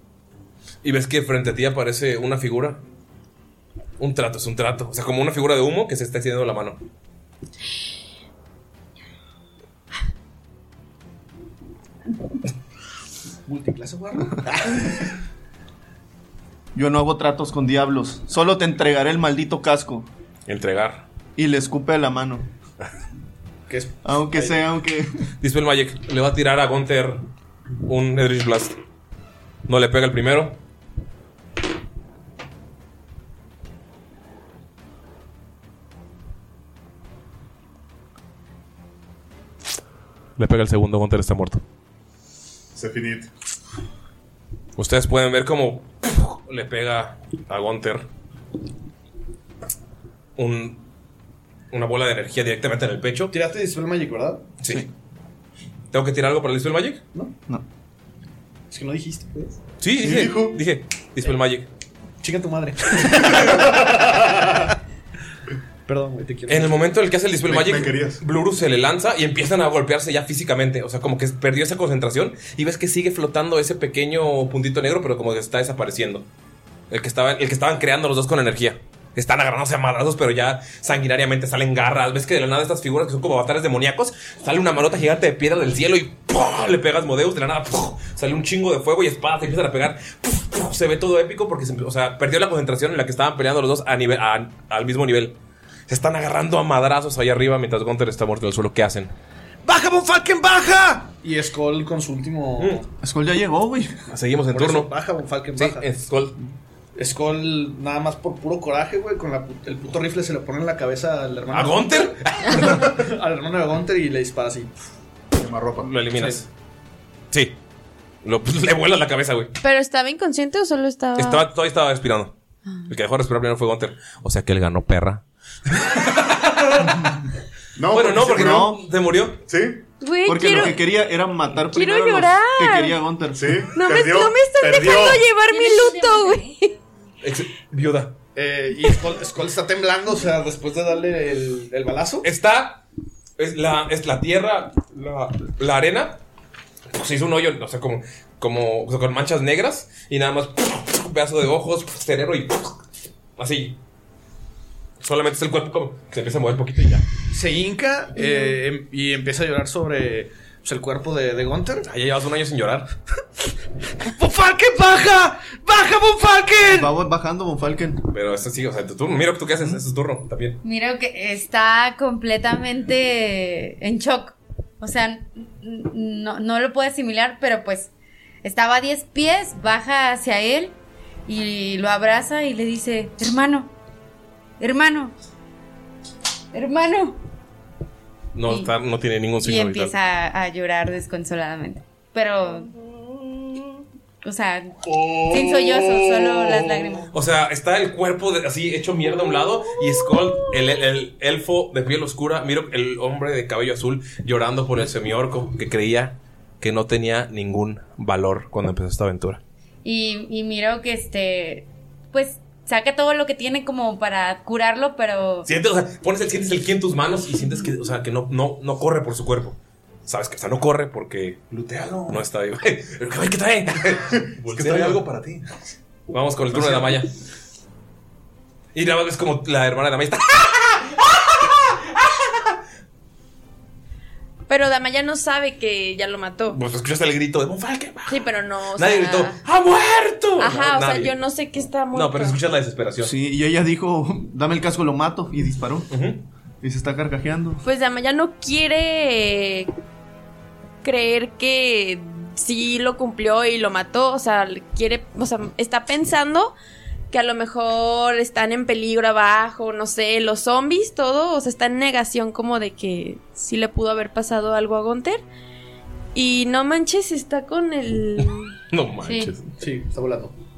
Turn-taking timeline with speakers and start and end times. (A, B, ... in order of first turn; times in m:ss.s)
0:00.8-0:02.8 A
0:04.0-0:06.8 A
0:13.4-0:15.0 B
0:16.7-0:20.1 C
0:20.5-0:21.0 A
0:21.4-0:22.5 C
0:23.7-0:24.6 B
0:24.0-0:25.1 C
0:25.4-0:27.2 A
0:27.8-0:28.7 A
0:29.7-0:30.6 A
0:40.4-0:41.6 A
0:42.7-0:43.3 D
0:44.8-0:48.1 A
0:50.4-0:50.8 A
0:51.7-0:53.3 A
0:53.3-0:54.4 B
0:54.6-0:54.9 A
0:55.9-0:57.0 A
0:58.7-0:59.6 B
0:59.8-1:01.7 A
1:00.0-1:00.6 D
1:02.2-1:04.7 B
1:05.9-1:06.9 B
1:06.5-1:16.3 A
1:07.5-1:08.2 D
1:16.9-1:35.4 A
1:35.9-1:39.1 A
1:39.6-1:42.9 B
1:42.6-1:42.8 A
1:43.0-1:44.0 C
1:44.1-1:44.9 A
1:44.5-1:45.8 B
1:45.6-1:46.4 A
1:46.9-1:54.7 B
1:51.5-1:53.0 A
1:55.3-1:55.9 D
1:55.8-1:56.5 A
1:57.3-1:57.6 A
1:58.2-1:59.5 A
1:59.6-2:01.4 E
2:01.2-2:02.3 A
2:02.9-2:07.1 A
2:07.8-2:08.8 D
2:07.9-2:09.4 A
2:08.3-2:08.8 C
2:09.5-2:09.8 D
2:10.0-2:10.8 E
2:10.2-2:13.7 C
2:11.6-2:13.0 E
2:13.3-2:15.2 D
2:13.7-2:16.7 E
2:15.5-2:16.5 F
2:17.2-2:18.2 A
2:18.3-2:22.3 B
2:22.2-2:22.8 A
2:23.4-2:26.2 A
2:26.9-2:32.8 A
2:33.4-2:33.8 A
2:35.0-2:37.1 A
2:37.3-2:41.9 B
2:38.2-2:38.5 E
2:41.8-2:42.9 A
2:44.0-2:46.9 B
2:46.7-2:48.0 C
2:48.1-2:50.6 A
2:50.6-2:57.9 F
2:58.4-3:00.8 F
3:01.3-3:03.7 F
3:04.6-3:05.1 F
3:06.5-3:07.2 F
3:08.3-3:09.9 A
3:08.5-3:08.7 F
3:09.4-3:12.7 F
3:14.2-3:17.1 F
3:14.9-3:15.4 D
3:17.1-3:29.4 A
3:29.8-3:35.5 F
3:35.4-3:41.4 A
3:41.5-3:42.2 D
3:42.1-3:45.0 A
3:44.1-3:45.5 D
3:46.1-3:47.1 A
3:46.5-3:47.0 D
3:48.7-3:52.6 A
3:54.5-3:56.6 E
3:56.5-4:01.1 A
3:58.1-3:59.4 E
4:00.4-4:02.4 E
4:01.9-4:03.1 A
4:03.0-4:05.9 C
4:05.9-4:06.2 A
4:06.6-4:07.6 C
4:07.6-4:09.7 E
4:10.8-4:16.5 E
4:17.1-4:25.2 E
4:26.1-4:28.5 E
4:28.2-4:29.5 A
4:29.0-4:29.3 F
4:29.6-4:30.3 B